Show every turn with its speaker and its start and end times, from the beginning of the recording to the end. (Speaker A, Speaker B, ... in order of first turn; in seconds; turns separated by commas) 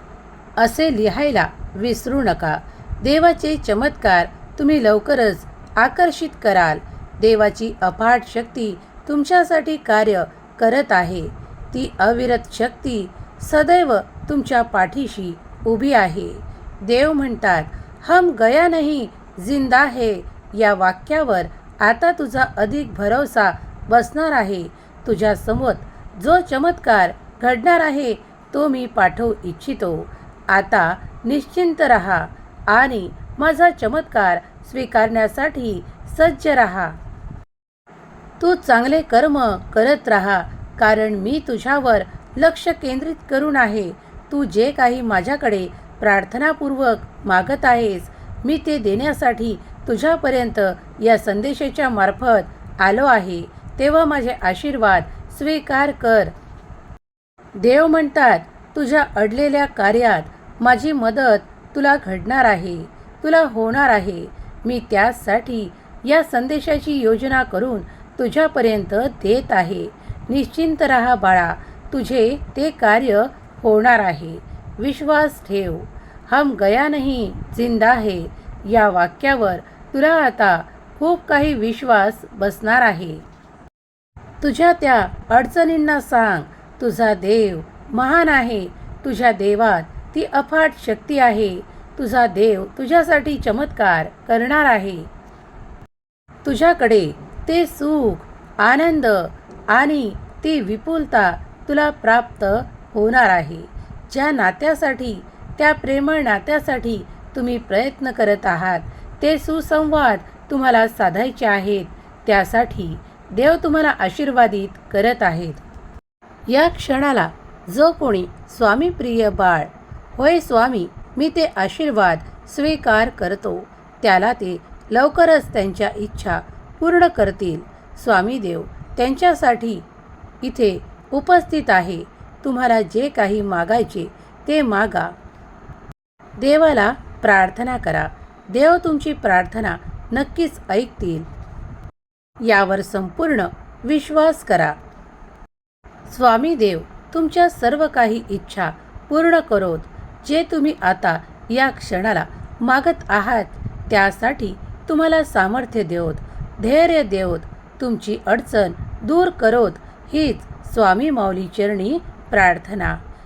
Speaker A: 0.6-37.0, Speaker A: 38.4-56.3, Speaker A: 57.6-83.2, Speaker A: 84.4-95.1, Speaker A: 96.4-115.6, Speaker A: 116.5-129.9, Speaker A: 130.4-135.1, Speaker A: 136.4-141.3, Speaker A: 142.4-144.8, Speaker A: 146.1-163.0